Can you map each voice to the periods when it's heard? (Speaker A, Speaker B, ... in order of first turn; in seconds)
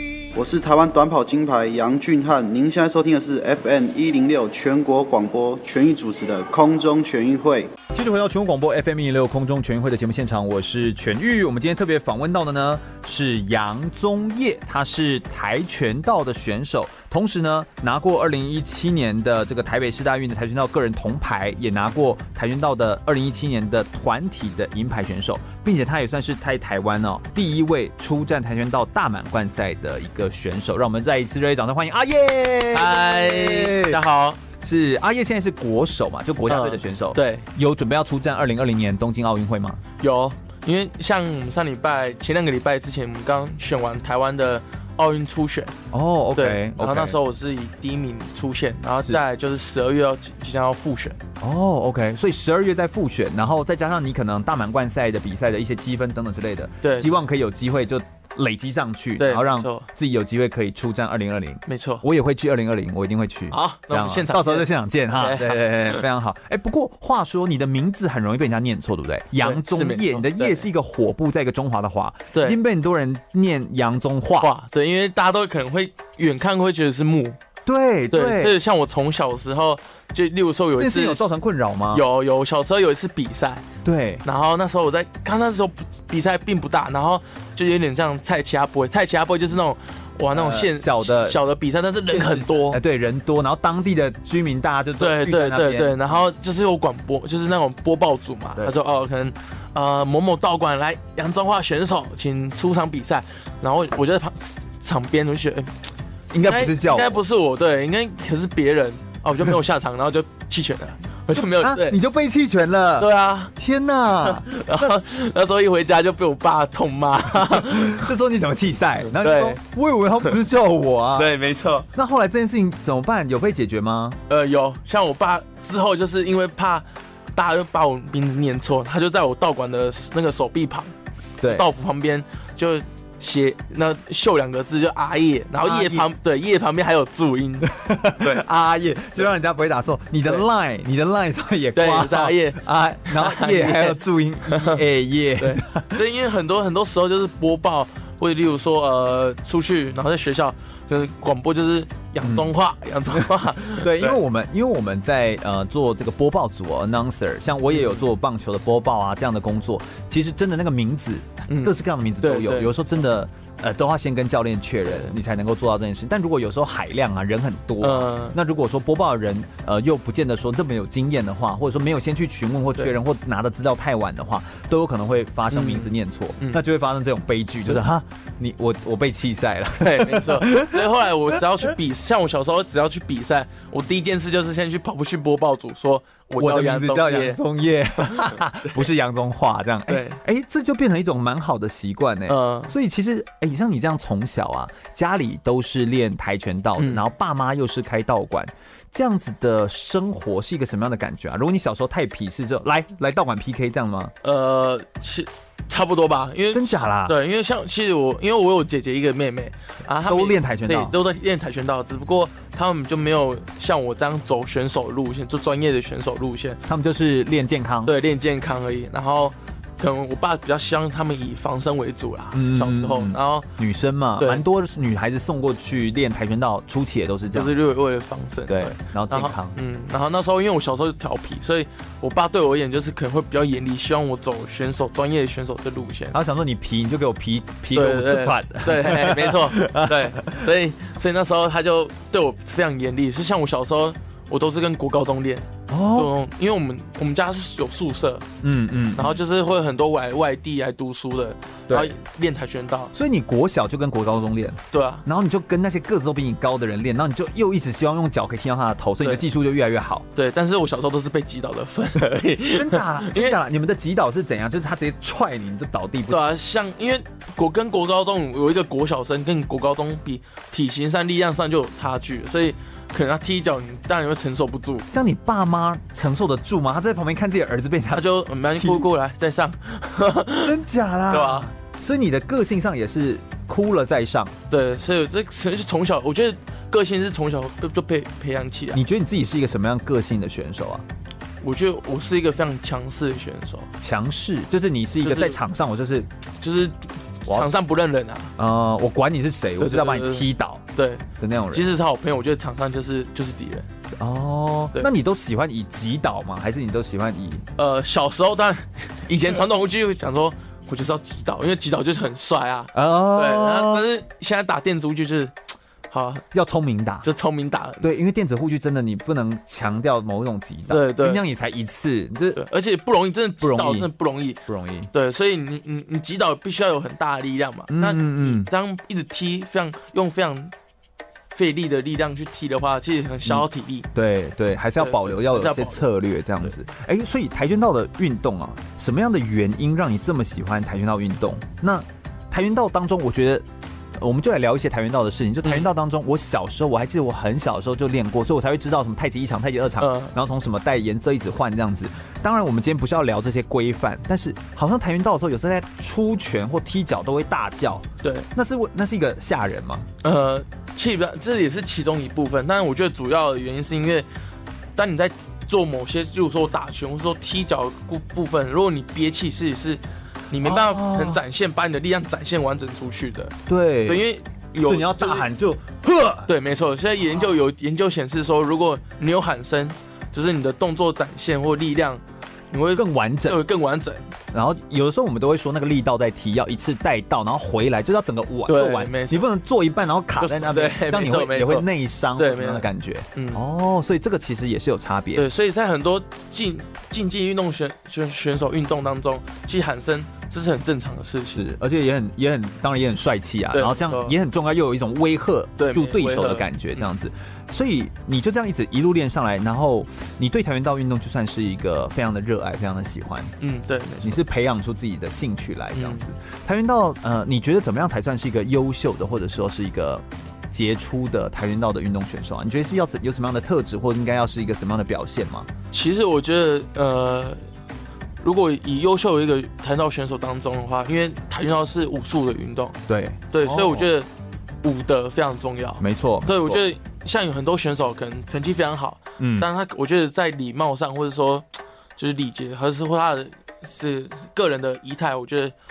Speaker A: 0.4-7.7
Speaker B: 7.9-34.0, 34.6-39.8, 45.9-47.2, 51.4-74.5, 77.7-78.6, 80.8-82.0, 83.8-84.2, 90.3-91.4, 92.1-96.0, 106.3-107.2, 111.6-115.0, 117.3-121.4, 121.9-124.2, 131.4-131.7, 135.6-136.1, 137.7-146.0, 152.2-152.5, 153.2-181.7, 186.4-204.1, 206.5-207.2, 210.1-210.9, 216.7-217.9, 222.3-227.6, 228.5-229.6, 236.1-240.5, 245.7-246.1, 248.4-249.2, 251.7-251.9, 252.9-260.1, 262.5-266.2, 274.9-278.9, 280.4-284.4, 288.7-290.9, 293.8-296.1, 298.4-300.6, 301.2-301.7, 304.0-307.5, 312.7-313.9, 316.3-317.1, 317.8-322.4, 323.4-323.9, 324.5-324.9, 327.7-328.5, 333.2-359.9, 370.4-371.2, 373.5-376.3, 382.7-383.4, 384.3-395.3, 401.4-413.3, 414.0-425.5, 432.9-433.9, 435.8-436.6, 439.2-439.5
Speaker C: 32.7-34.4, 36.5-37.5, 40.0-45.8, 46.4-51.2, 56.8-57.1, 59.2-59.9, 61.7-62.0, 63.5-66.0, 69.4-70.7, 72.3-72.6, 74.4-77.4, 78.1-81.3, 81.9-83.7, 84.2-92.8, 95.0-105.7, 106.4-112.0, 113.0-113.5, 114.3-118.1, 119.1-119.6, 121.2-121.9, 124.3-130.9, 131.5-138.4, 141.8-144.8, 145.4-154.2, 157.7-158.0, 161.5-162.7, 164.9-165.2, 167.8-168.4, 175.5-176.6, 179.8-187.4, 188.0-188.8, 189.9-190.2, 192.3-192.7, 196.8-197.1, 204.2-216.6, 217.8-223.5, 227.3-236.2, 237.7-248.3, 248.9-252.9, 254.7-255.1, 260.1-263.4, 266.1-274.9, 277.9-280.6, 281.1-281.5, 284.5-288.8, 291.4-293.7, 295.0-295.4, 296.4-298.3, 299.6-303.7, 307.6-315.4, 315.9-316.2, 317.0-317.9, 320.7-321.2, 322.3-324.4, 324.9-330.5, 331.3-333.9, 334.8-335.9, 349.8-350.1, 358.0-358.3, 360.0-364.1, 364.8-375.3, 376.3-384.0, 388.5-389.2, 390.2-393.4, 395.1-401.5, 403.5-404.2, 405.6-406.9, 413.4-414.2, 415.7-416.1, 425.7-427.4, 428.2-432.8, 433.3-434.1, 434.6-445.5